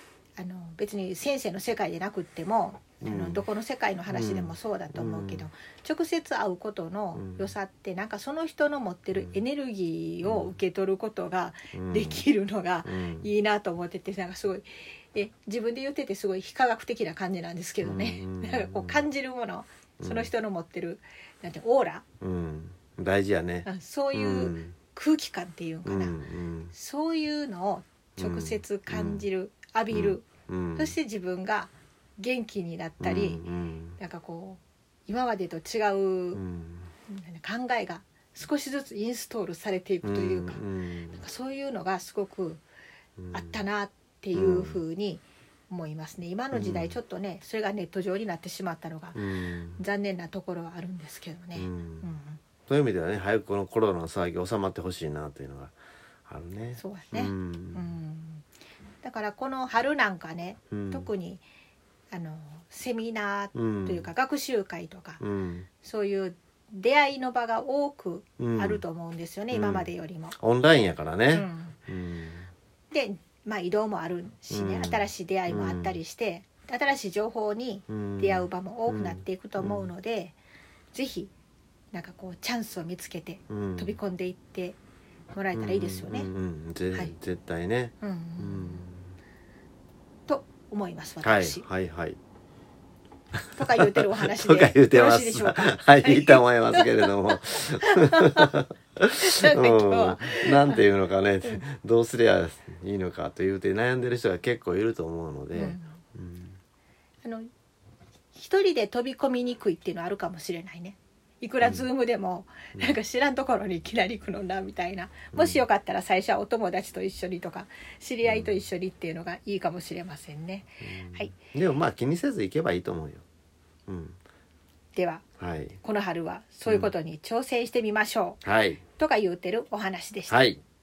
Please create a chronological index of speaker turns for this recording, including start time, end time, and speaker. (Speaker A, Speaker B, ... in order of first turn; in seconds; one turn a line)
Speaker A: 0.4-22.0
Speaker B: 3.0-3.4
Speaker B: 4.1-5.5
Speaker B: 7.2-7.5
Speaker B: 9.1-9.4
Speaker B: 10.2-10.6
Speaker B: 11.7-12.3
Speaker B: 12.8-13.3
Speaker B: 17.8-19.1
Speaker B: 20.0-20.3
Speaker B: 22.2-24.8
Speaker A: 23.6-26.2
Speaker B: 25.9-26.7
Speaker A: 26.7-30.2
Speaker B: 28.2-29.3
Speaker B: 29.9-31.0
Speaker A: 30.8-33.4
Speaker B: 33.0-34.0
Speaker A: 34.0-36.4
Speaker B: 36.3-36.9
Speaker A: 37.1-42.6
Speaker B: 40.0-41.2
Speaker B: 43.2-43.6
Speaker A: 43.3-49.2
Speaker B: 44.3-44.8
Speaker B: 46.5-47.0
Speaker B: 49.1-49.8
Speaker A: 49.8-52.4
Speaker B: 51.6-52.1
Speaker B: 52.7-55.7
Speaker B: 56.3-57.9
Speaker A: 56.8-58.5
Speaker A: 59.0-61.4
Speaker B: 60.7-61.1
Speaker A: 62.1-65.2
Speaker B: 63.5-64.1
Speaker B: 65.2-65.7
Speaker A: 65.8-70.4
Speaker B: 68.4-68.8
Speaker B: 69.5-72.5
Speaker A: 71.3-71.8
Speaker A: 72.9-80.3
Speaker B: 74.5-76.0
Speaker B: 77.9-79.9
Speaker A: 80.9-81.3
Speaker A: 81.9-84.8
Speaker B: 83.5-84.0
Speaker A: 85.3-86.3
Speaker B: 85.5-89.2
Speaker A: 88.0-88.8
Speaker A: 90.3-91.7
Speaker B: 91.2-92.2
Speaker B: 93.5-106.6
Speaker A: 93.6-98.5
Speaker A: 99.2-100.8
Speaker A: 105.5-106.0
Speaker A: 107.2-107.5
Speaker A: 108.3-121.3
Speaker B: 115.3-115.6
Speaker B: 118.2-118.6
Speaker B: 120.8-123.2
Speaker B: 123.9-124.2
Speaker A: 125.0-125.2
Speaker B: 125.4-125.8
Speaker A: 125.8-128.4
Speaker B: 126.7-126.9
Speaker B: 128.4-128.8
Speaker A: 129.0-130.4
Speaker B: 130.3-130.6